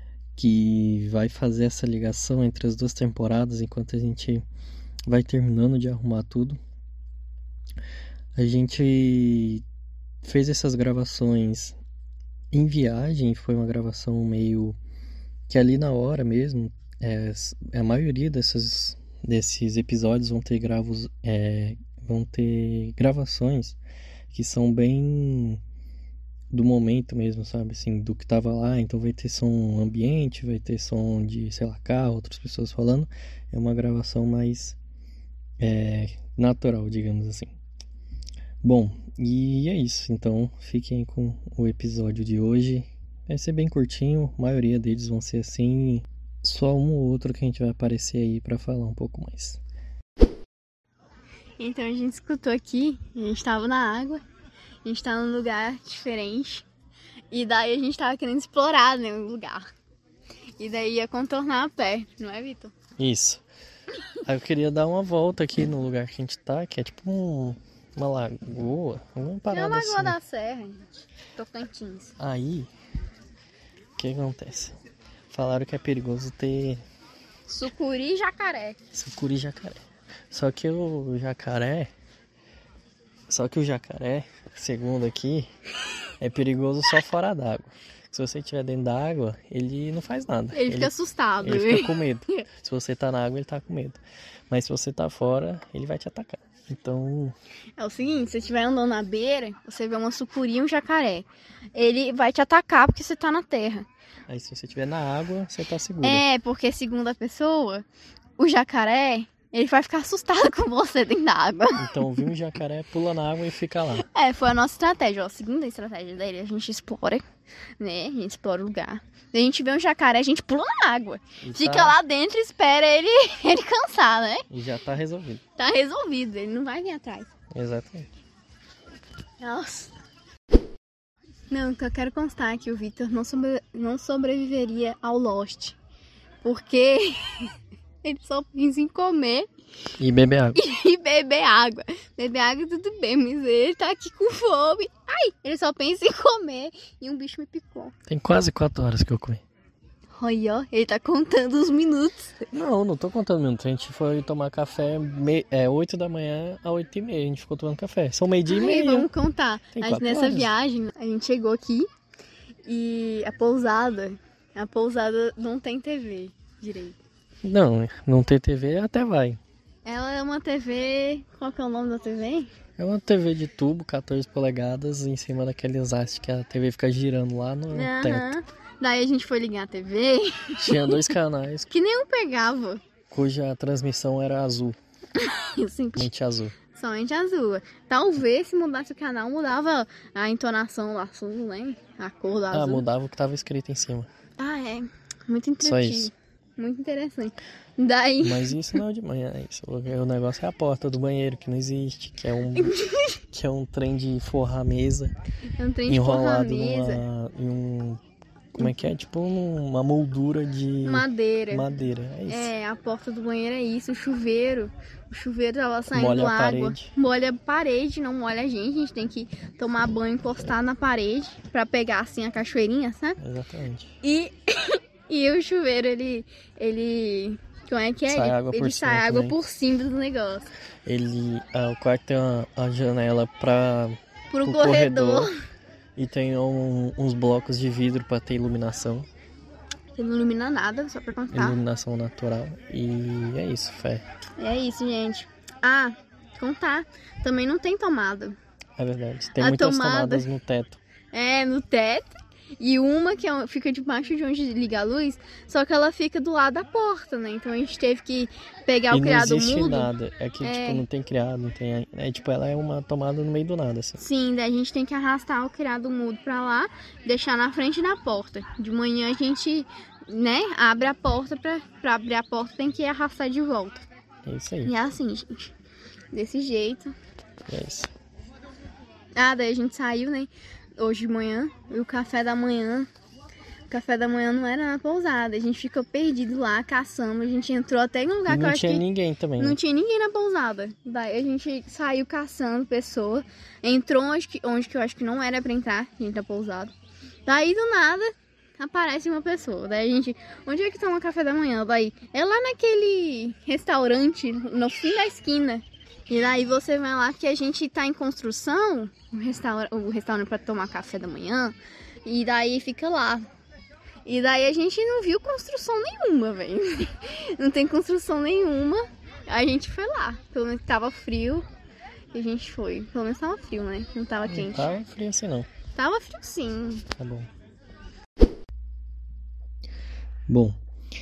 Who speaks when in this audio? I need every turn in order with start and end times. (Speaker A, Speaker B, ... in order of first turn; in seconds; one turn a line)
Speaker A: 0.4-4.4
Speaker A: 5.1-6.6
Speaker A: 8.4-9.6
Speaker A: 10.2-11.8
Speaker A: 12.5-14.8
Speaker A: 15.5-23.8
Speaker A: 24.3-25.6
Speaker A: 26.5-34.8
Speaker A: 35.6-37.5
Speaker A: 38.6-49.6
Speaker B: 51.6-54.2
Speaker B: 54.9-56.7
Speaker B: 57.3-59.6
Speaker B: 60.6-62.8
Speaker A: 63.0-63.4
Speaker A: 64.2-70.2
Speaker B: 69.5-72.2
Speaker A: 72.2-72.7
Speaker A: 74.0-74.8
Speaker A: 75.3-76.8
Speaker B: 77.5-78.8
Speaker A: 78.9-81.9
Speaker A: 83.3-85.5
Speaker A: 86.2-97.3
Speaker B: 90.5-92.4
Speaker B: 97.8-103.9
Speaker A: 104.3-106.2
Speaker B: 106.0-107.9
Speaker B: 108.4-112.2
Speaker A: 111.8-114.1
Speaker B: 114.1-117.2
Speaker B: 117.8-124.5
Speaker A: 121.4-122.0
Speaker A: 124.5-125.4
Speaker B: 125.6-127.3
Speaker A: 127.5-128.1
Speaker B: 129.4-129.9
Speaker B: 131.5-135.8
Speaker B: 136.4-139.5
Speaker A: 140.0-140.6
Speaker B: 140.6-147.9
Speaker A: 148.1-149.4
Speaker B: 150.2-152.5
Speaker A: 152.5-159.1
Speaker B: 158.5-161.9
Speaker A: 159.7-160.5
Speaker B: 162.7-167.0
Speaker A: 167.4-169.4
Speaker B: 169.8-172.5
Speaker A: 172.8-178.3
Speaker B: 177.7-181.1
Speaker A: 180.6-181.7
Speaker B: 181.7-182.8
Speaker A: 183.1-184.8
Speaker B: 185.2-186.1
Speaker A: 186.0-186.6
Speaker B: 186.8-192.8
Speaker A: 192.5-194.1
Speaker B: 194.4-198.6
Speaker A: 195.6-196.1
Speaker A: 198.2-202.8
Speaker B: 202.6-203.2
Speaker A: 203.3-205.1
Speaker B: 205.6-207.0
Speaker A: 205.9-208.0
Speaker A: 208.6-212.5
Speaker B: 210.8-211.7
Speaker B: 212.3-223.2
Speaker A: 215.9-216.9
Speaker A: 223.2-224.0
Speaker B: 224.0-230.5
Speaker A: 228.1-229.4
Speaker A: 230.9-235.3
Speaker B: 234.3-235.3
Speaker A: 236.0-239.1
Speaker B: 239.9-241.6
Speaker A: 241.3-244.0
Speaker B: 244.4-248.4
Speaker A: 248.8-250.8
Speaker B: 249.4-250.3
Speaker B: 251.1-260.9
Speaker A: 258.9-264.0
Speaker B: 264.0-273.9
Speaker A: 274.3-274.7
Speaker B: 274.6-275.5
Speaker B: 276.1-276.9
Speaker A: 277.5-277.9
Speaker B: 279.2-282.9
Speaker B: 283.7-288.9
Speaker A: 288.3-289.6
Speaker B: 289.4-296.7
Speaker B: 297.3-313.3
Speaker B: 314.1-321.5
Speaker B: 322.1-324.7
Speaker A: 324.3-325.5
Speaker B: 325.8-326.9
Speaker A: 326.9-327.3
Speaker A: 330.3-330.6